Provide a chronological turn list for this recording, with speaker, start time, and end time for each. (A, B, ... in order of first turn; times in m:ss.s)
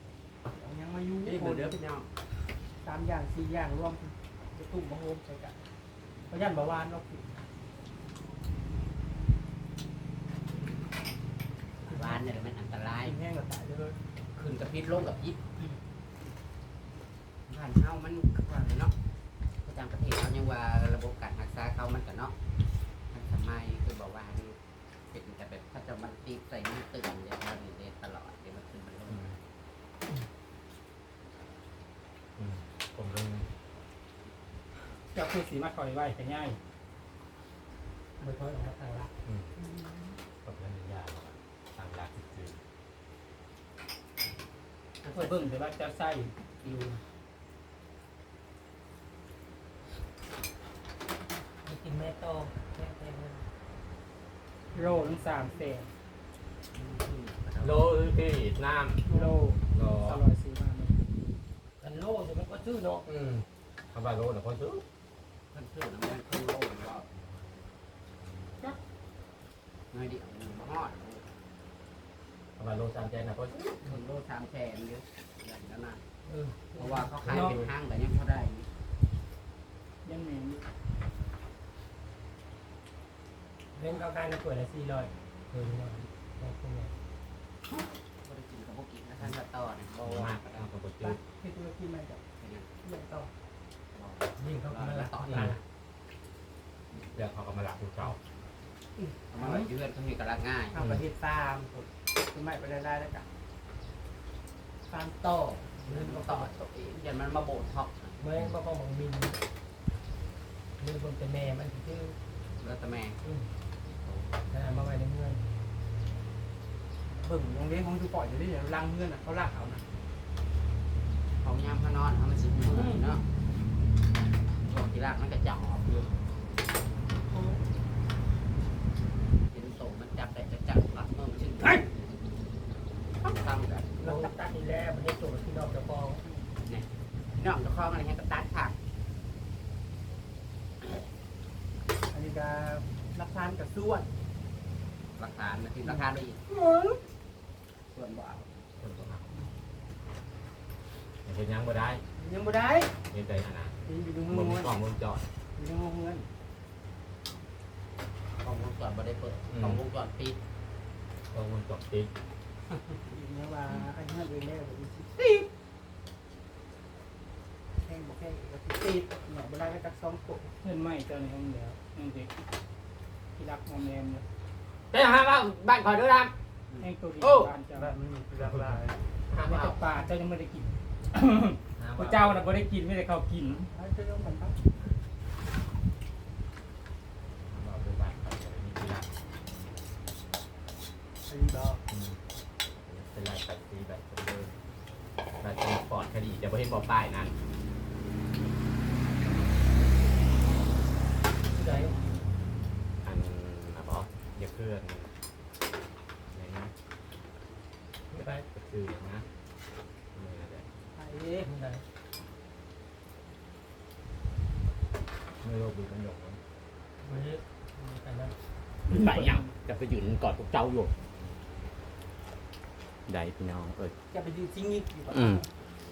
0:00.5-0:01.8 A
0:01.2-0:02.1 B
0:02.8-0:05.6 A
0:06.3-0:07.3 A
0:11.8-0:13.2 B
0:11.8-0:12.2 A
0:13.0-0:14.0 A
0:14.3-0:15.4 B
0:17.5-0:18.9 B
0:19.6-0:22.3 B
0:23.1-0:24.6 B
0:25.1-0:29.2 B
0:29.1-0:29.4 C
0:32.4-0:33.5 C
0:35.1-0:36.6 D
0:38.2-0:39.1 E
0:39.6-0:40.2 A
0:40.4-0:42.6 C
0:45.0-0:45.4 B
0:45.1-0:47.0 D
0:51.6-0:53.4 E
0:54.7-0:55.9 D
0:55.0-0:55.6 A
0:56.7-0:57.9 B
0:57.6-0:59.2 C
0:59.1-1:01.0 D
0:59.7-1:00.2 C
1:01.8-1:03.0 E
1:03.0-1:04.8 C
1:05.5-1:07.0 B
1:09.9-1:11.2 B
1:12.6-1:13.7 C
1:13.7-1:16.0 B
1:16.2-1:17.2 E
1:16.7-1:18.7 B
1:17.3-1:17.6 D
1:20.0-1:20.6 D
1:23.7-1:26.9 E
1:27.7-1:30.7 B
1:30.0-1:31.2 C
1:31.0-1:32.2 A
1:32.4-1:32.7 B
1:32.8-1:33.3 A
1:33.9-1:35.6 B
1:34.4-1:35.6 E
1:35.2-1:35.5 C
1:36.9-1:38.2 C
1:39.0-1:39.7 A
1:39.3-1:40.8 B
1:40.7-1:43.2 A
1:40.8-1:41.0 C
1:44.9-1:46.2 A
1:45.9-1:46.5 E
1:45.9-1:48.2 B
1:48.2-1:49.4 E
1:50.8-1:52.2 E
1:52.6-1:53.2 B
1:53.2-1:53.5 E
1:54.5-1:55.4 E
1:57.1-1:59.8 A
2:01.4-2:03.2 B
2:04.6-2:06.1 B
2:07.3-2:07.6 A
2:09.5-2:11.9 B
2:13.2-2:14.3 B
2:14.0-2:16.2 E
2:16.6-2:18.7 B
2:22.1-2:24.1 A
2:25.2-2:26.4 B
2:25.8-2:27.0 A
2:27.9-2:28.4 B
2:28.8-2:29.3 C
2:31.2-2:32.0 C
2:32.2-2:32.9 A
2:33.1-2:33.7 C
2:33.8-2:34.7 A
2:34.3-2:35.2 C
2:35.6-2:36.3 A
2:38.4-2:40.4 B
2:39.5-2:39.8 C
2:41.3-2:42.1 C
2:43.0-2:45.2 A
2:47.8-2:50.5 A
2:50.6-2:52.3 D
2:53.4-2:54.2 D
2:54.9-2:56.3 C
2:56.8-2:58.0 D
2:57.2-2:57.5 C
2:57.7-2:59.0 A
2:59.3-2:59.8 C
2:59.4-3:03.7 D
3:01.8-3:02.4 C
3:03.7-3:04.6 A
3:07.5-3:09.1 C
3:11.2-3:11.8 A
3:11.9-3:12.2 C
3:12.8-3:14.5 C
3:15.4-3:17.3 C
3:21.4-3:22.3 E
3:23.0-3:25.1 C
3:26.3-3:26.7 C
3:28.1-3:28.4 E
3:28.5-3:29.2 C
3:30.1-3:30.7 C
3:30.9-3:31.5 A
3:31.4-3:31.8 E
3:35.4-3:36.4 C
3:37.0-3:38.3 E
3:38.9-3:40.9 C
3:38.9-3:39.3 D
3:43.1-3:43.9 C
3:44.1-3:45.5 A
3:45.1-3:45.4 C